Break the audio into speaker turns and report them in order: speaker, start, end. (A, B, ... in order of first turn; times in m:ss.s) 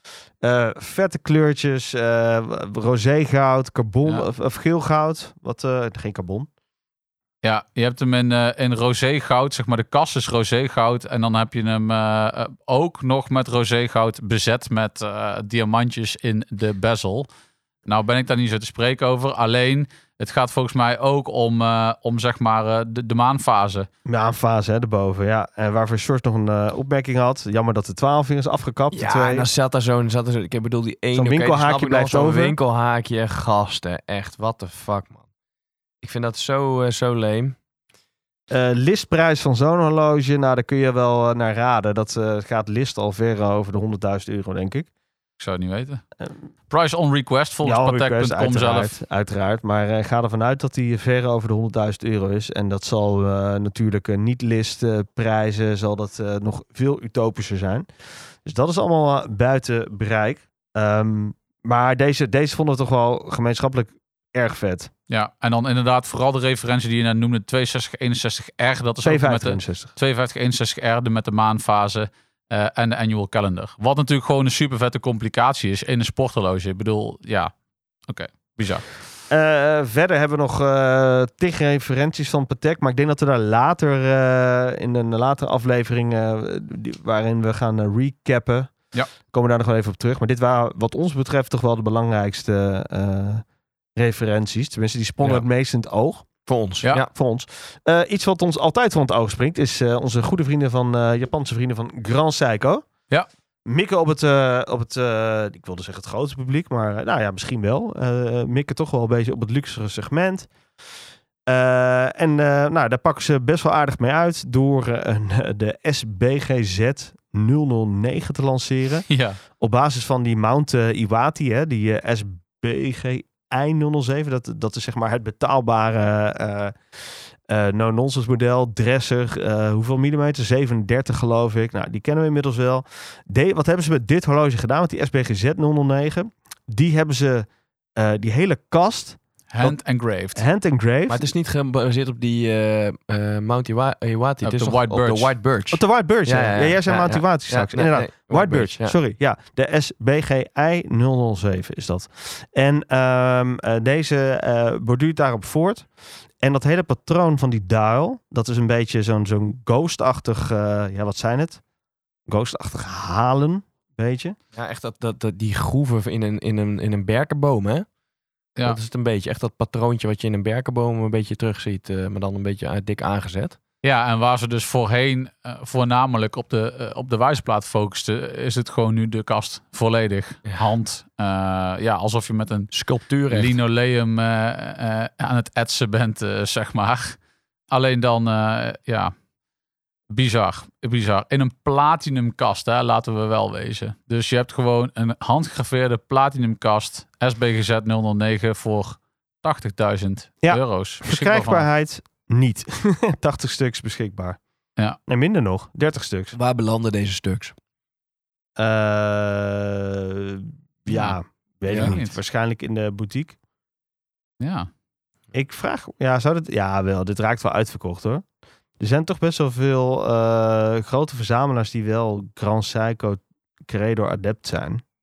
0:00.4-0:06.5 A
0:07.4-0:17.3 B
0:17.9-0:23.9 B
0:24.1-0:29.5 A
0:28.9-0:35.2 C
0:31.1-0:32.6 A
0:36.0-0:37.6 C
0:38.5-0:44.9 A
0:45.4-0:46.0 B
0:46.7-0:48.9 B
0:47.6-0:57.9 A
0:58.4-1:04.9 A
1:05.1-1:17.5 B
1:09.0-1:09.9 A
1:18.1-1:18.9 B
1:19.3-1:33.4 A
1:34.0-1:36.3 A
1:36.5-1:37.1 C
1:36.9-1:42.9 A
1:43.7-1:50.5 A
1:51.5-1:59.1 A
1:59.1-1:59.4 B
1:59.6-2:06.8 A
2:07.5-2:19.8 A
2:19.5-2:20.4 B
2:20.3-2:21.3 A
2:21.1-2:29.0 C
2:24.4-2:25.4 B
2:25.7-2:35.9 A
2:36.4-2:41.6 A
2:42.3-2:44.4 A
2:44.6-2:47.9 C
2:48.7-2:53.6 C
2:53.8-3:07.2 B
3:02.7-3:03.6 C
3:07.7-3:09.1 B
3:10.1-3:21.7 B
3:20.4-3:24.4 A
3:25.1-3:26.4 A
3:26.3-3:27.6 C
3:28.6-3:33.4 A
3:30.9-3:31.2 B
3:31.7-3:32.0 C
3:31.7-3:32.2 B
3:34.4-3:34.7 B
3:35.3-3:38.2 A
3:38.8-3:44.8 A